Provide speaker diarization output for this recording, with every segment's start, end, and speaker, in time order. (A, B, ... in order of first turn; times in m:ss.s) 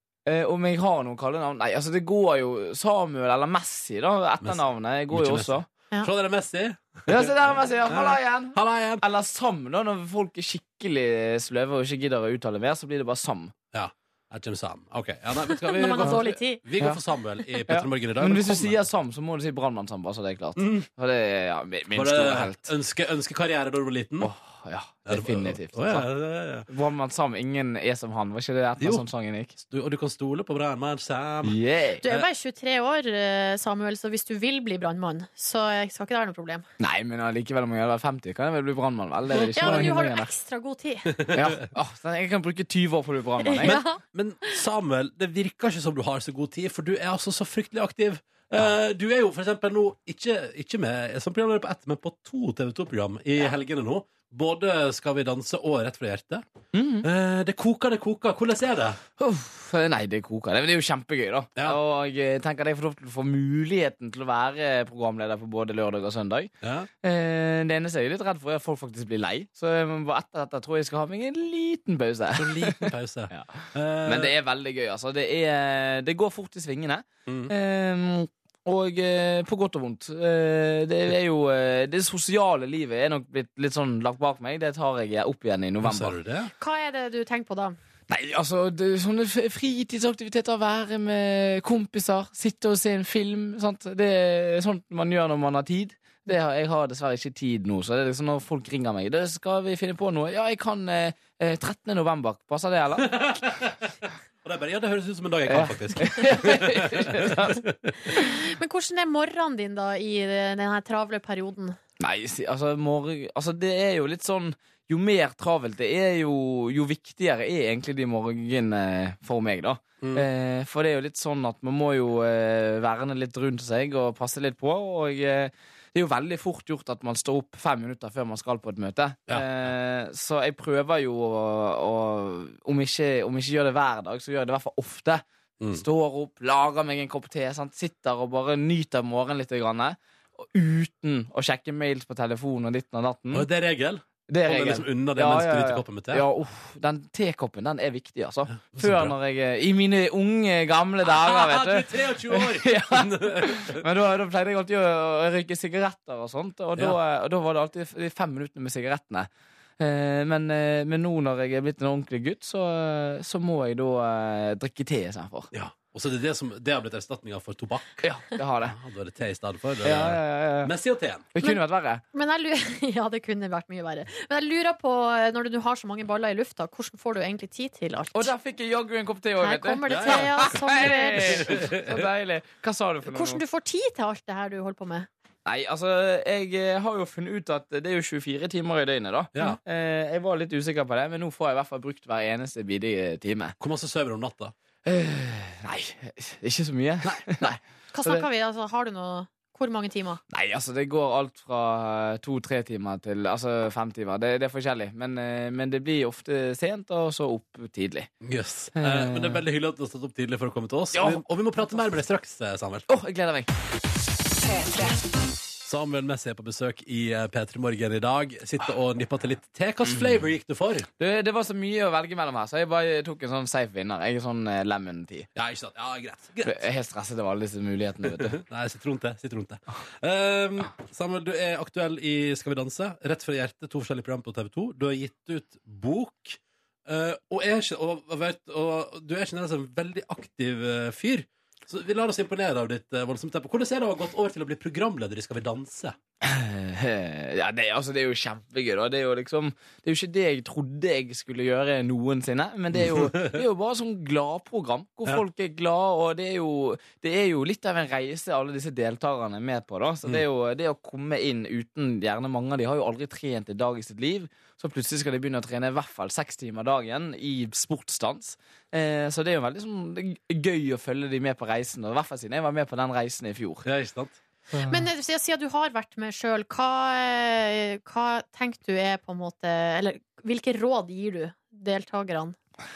0:00.2-0:05.6 A
0:05.1-0:09.0 B
0:07.1-0:13.5 A
0:13.7-0:18.8 B
0:15.6-0:16.6 C
0:17.7-0:22.7 A
0:20.6-0:20.8 B
0:21.9-0:24.3 B
0:24.2-0:26.1 A
0:25.1-0:26.6 B
0:26.7-0:29.6 A
0:29.6-0:32.3 B
0:31.4-0:32.0 A
0:32.0-0:36.6 C
0:36.8-0:40.3 A
0:39.5-0:41.2 C
0:39.6-0:39.9 B
0:41.3-0:43.8 A
0:43.4-0:44.0 C
0:43.6-0:56.4 B
0:56.7-0:57.1 A
0:57.0-0:59.0 B
0:59.2-1:26.2 A
1:06.6-1:06.9 B
1:12.3-1:14.3 B
1:17.3-1:17.5 B
1:25.8-1:26.5 B
1:26.6-1:27.8 C
1:28.1-1:43.2 A
1:43.0-1:43.7 B
1:44.4-1:48.2 B
1:45.5-1:47.6 A
1:48.1-1:51.8 C
1:52.0-2:23.5 A
2:23.3-2:26.2 B
2:24.3-2:45.5 A
2:28.6-2:29.1 B
2:31.1-2:33.8 B
2:45.5-2:48.1 B
2:48.0-2:48.8 A
2:48.6-2:51.2 B
2:49.8-2:50.7 A
2:51.3-2:52.0 A
2:52.1-2:58.3 C
2:58.1-3:03.4 A
2:59.4-3:01.6 C
2:59.9-3:02.0 B
3:03.0-3:05.1 C
3:05.4-3:13.5 A
3:13.6-3:14.5 B
3:14.8-3:18.2 A
3:17.0-3:17.5 B
3:17.9-3:20.2 C
3:20.3-3:28.1 A
3:28.2-3:32.8 B
3:28.7-3:29.4 A
3:30.9-3:31.8 A
3:32.9-3:33.5 A
3:35.6-3:40.9 B
3:39.8-3:40.2 A
3:41.0-3:45.3 A
3:45.4-3:46.6 B
3:46.4-3:48.4 A
3:48.2-4:05.9 B
4:06.2-4:33.6 A
4:12.8-4:13.4 B
4:33.6-4:34.1 B
4:34.7-4:42.4 C